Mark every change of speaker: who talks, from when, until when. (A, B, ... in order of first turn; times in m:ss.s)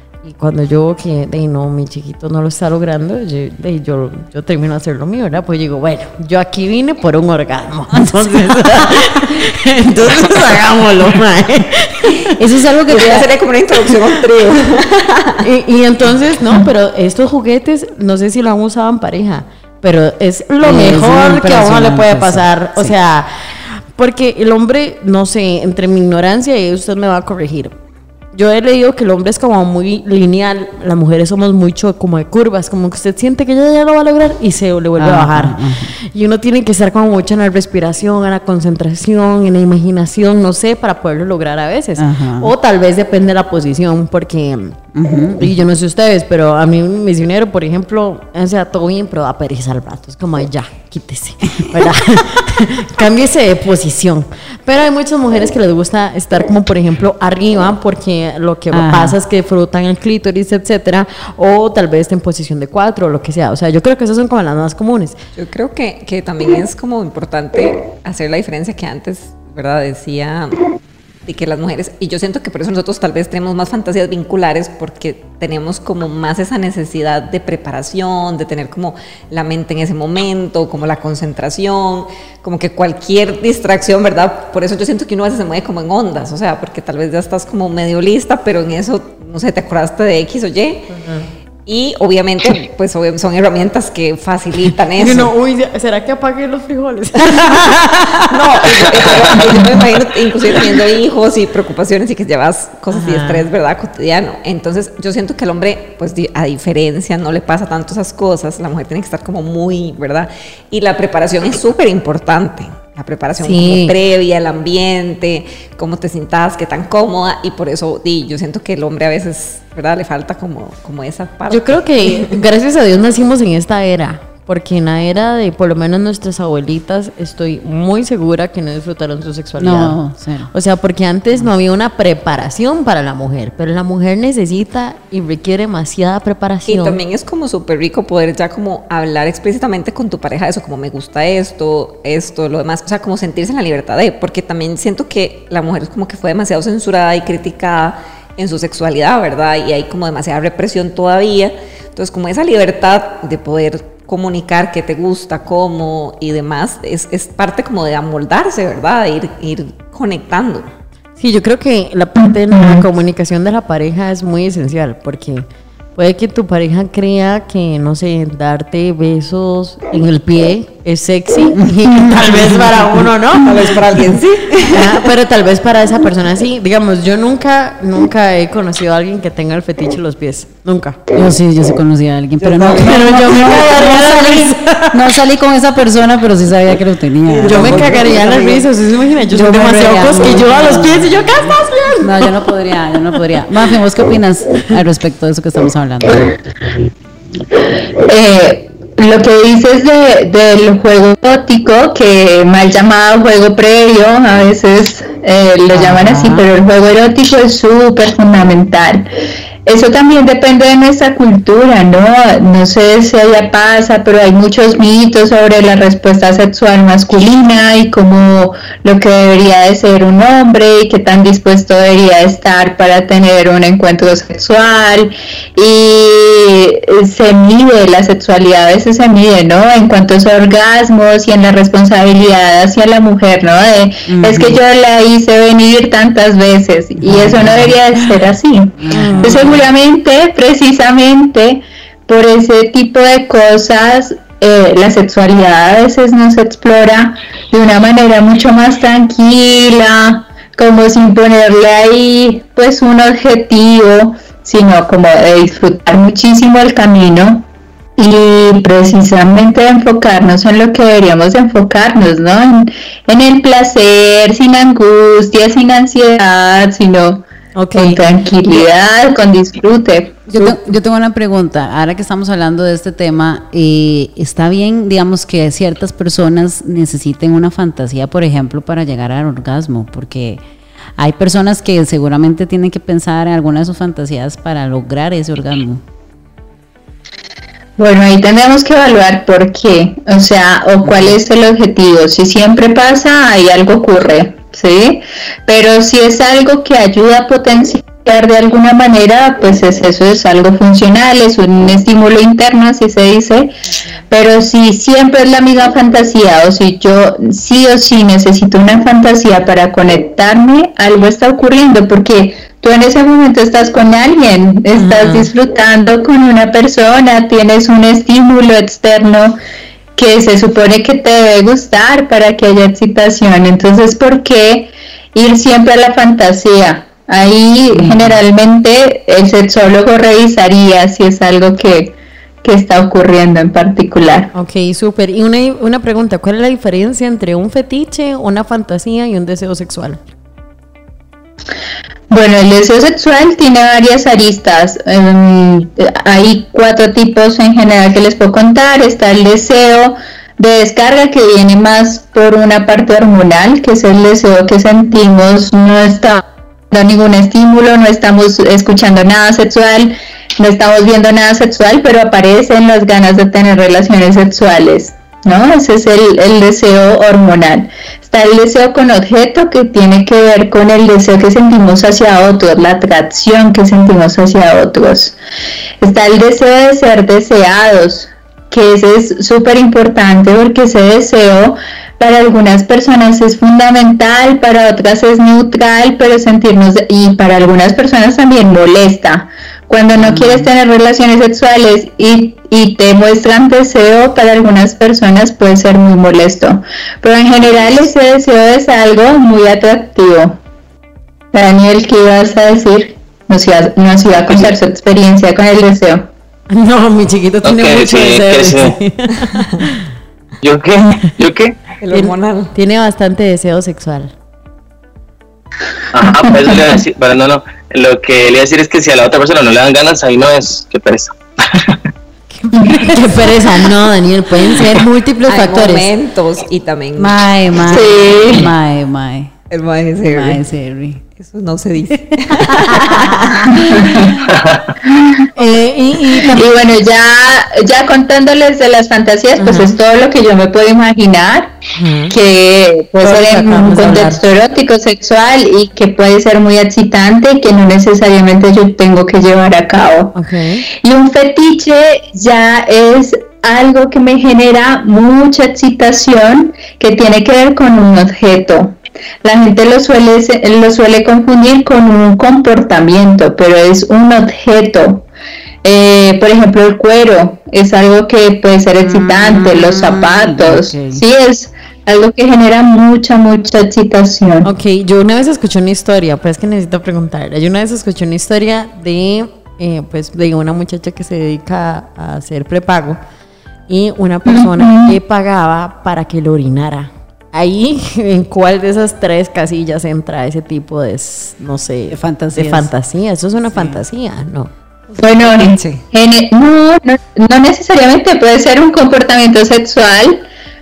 0:00.2-0:12.4 A
0:07.9-0:09.0 B
0:12.3-0:13.3 B
0:12.9-0:15.4 C
0:15.4-0:27.8 A
0:20.6-0:22.9 B
0:28.3-0:44.8 A
0:35.0-0:35.9 B
0:42.0-0:42.5 B
0:44.9-0:45.5 B
0:45.4-1:05.2 A
0:58.7-0:59.2 B
1:05.4-1:10.7 C
1:11.3-1:31.0 C
1:30.9-1:31.3 A
1:31.7-1:35.3 C
1:35.0-1:39.9 A
1:38.3-2:02.4 C
1:42.9-1:43.5 A
1:53.4-1:54.0 A
2:01.5-2:10.0 A
2:09.6-2:10.5 B
2:10.5-2:17.0 A
2:16.7-2:40.7 C
2:41.2-2:53.8 A
2:42.5-2:42.8 D
2:51.6-2:53.0 B
2:53.4-2:55.1 C
2:54.7-3:01.1 A
3:01.2-3:08.6 B
3:02.4-3:03.4 C
3:02.6-3:05.1 A
3:07.4-3:07.9 C
3:07.4-3:12.3 A
3:09.3-3:16.3 B
3:18.1-3:29.1 D
3:25.7-3:26.4 B
3:29.7-4:17.4 D
3:54.1-3:54.6 B
3:57.0-3:57.8 B
3:58.8-3:59.6 B
3:58.9-3:59.6 A
4:18.0-4:27.2 D
4:27.6-4:28.0 A
4:27.8-4:30.6 D
4:30.3-4:40.4 B
4:41.0-4:45.8 B
4:47.8-5:03.6 D
4:50.8-4:51.2 B
5:04.1-5:19.4 D
5:14.8-5:15.3 A
5:20.0-5:34.3 D
5:27.8-5:28.2 B
5:34.3-5:40.0 A
5:42.1-6:15.2 D
6:15.8-6:40.4 D
6:30.0-6:30.5 B
6:41.3-6:46.1 D
6:46.5-6:49.9 A
6:47.4-6:48.8 E
6:50.4-6:51.6 E
6:51.8-6:52.5 C
6:51.9-6:54.1 A
6:55.9-7:01.8 E
6:56.1-6:56.4 D
7:02.4-7:03.0 B
7:02.6-7:02.8 D
7:02.9-7:05.9 A
7:05.3-7:07.2 C
7:07.0-7:09.3 B
7:07.7-7:08.5 D
7:09.5-7:10.4 C
7:10.0-7:11.0 B
7:11.2-7:13.8 C
7:12.3-7:14.2 B
7:13.5-7:14.1 D
7:14.3-7:14.7 E
7:15.4-7:16.5 A
7:16.3-7:21.6 D
7:19.4-7:19.8 B
7:21.8-7:22.2 A
7:22.1-7:30.2 D
7:23.0-7:24.2 A
7:30.2-7:30.7 A
7:30.8-7:45.0 D
7:45.6-7:54.5 D
7:48.8-7:51.0 B
7:54.4-8:03.0 A
8:03.7-8:14.5 A
8:04.3-8:05.0 D
8:11.9-8:12.7 B
8:13.5-8:13.8 B
8:14.9-8:15.8 C
8:15.0-8:20.3 D